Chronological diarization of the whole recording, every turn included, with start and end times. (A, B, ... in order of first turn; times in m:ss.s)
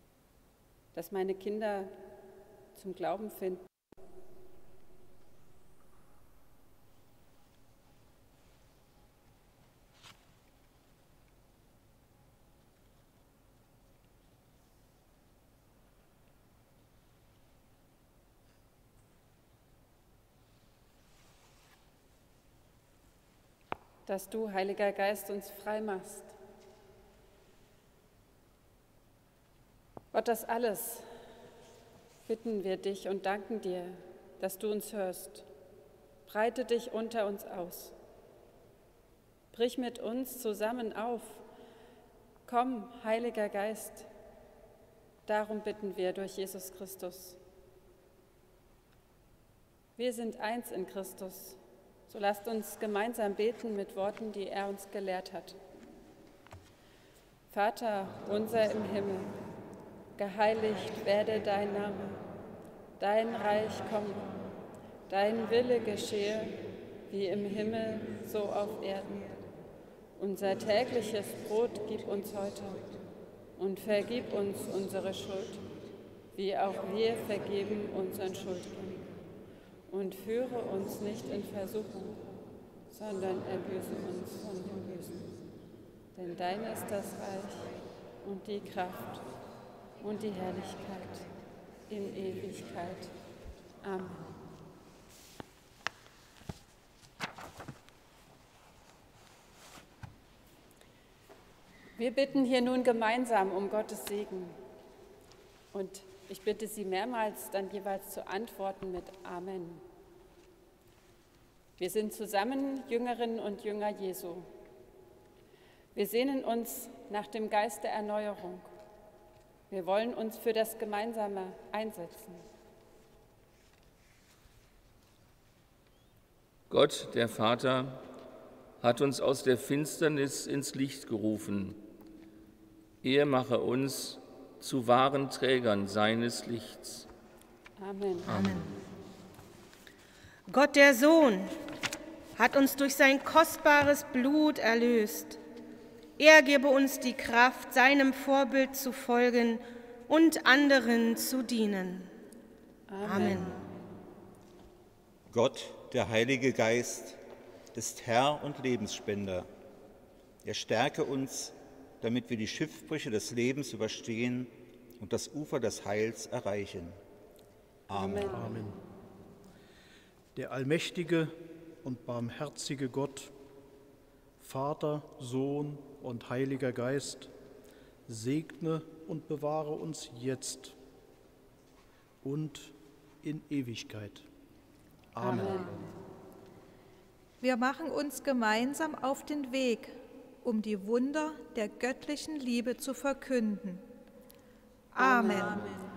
0:00.9-0:01.9 A
0:02.7-0:03.6 A
0:24.0-0:26.3 A
0:30.1-0:31.1 A
0:32.3-0:35.5 A
0:36.3-0:37.9 A
0:39.5-0:41.4 A
0:42.4-0:44.1 A
0:45.2-0:47.4 A
0:50.0-0:55.6 A
0:57.5-0:59.3 A
1:00.2-1:02.1 A
1:03.0-1:04.3 A
1:05.1-1:06.6 A
1:07.1-1:09.3 A
1:10.2-1:12.8 A
1:13.6-1:15.6 A
1:16.3-1:19.0 A
1:19.9-1:22.2 A
1:22.9-1:25.2 A
1:26.1-1:29.2 A
1:30.0-1:31.2 A
1:31.9-1:33.1 A
1:33.8-1:34.2 A
1:42.0-1:44.6 A
1:45.7-1:49.8 A
1:51.8-1:54.5 A
1:55.9-1:58.7 A
1:59.7-2:02.4 A
2:06.7-2:08.0 B
2:08.8-2:11.8 B
2:13.0-2:17.1 B
2:17.8-2:18.4 A
2:18.3-2:18.7 C
2:20.5-2:21.5 C
2:22.4-2:25.4 C
2:26.2-2:32.1 C
2:32.9-2:33.6 A
2:33.0-2:33.6 C
2:35.3-2:37.2 D
2:37.7-2:39.5 D
2:40.4-2:47.0 D
2:47.9-2:48.4 D
2:47.9-2:48.6 A
2:48.3-2:48.8 E
2:50.3-2:53.3 E
2:54.4-2:57.3 E
2:58.1-3:00.8 E
3:02.2-3:04.3 E
3:05.1-3:05.8 E
3:05.3-3:05.7 A
3:07.4-3:13.8 F
3:14.9-3:15.6 F
3:15.0-3:15.6 A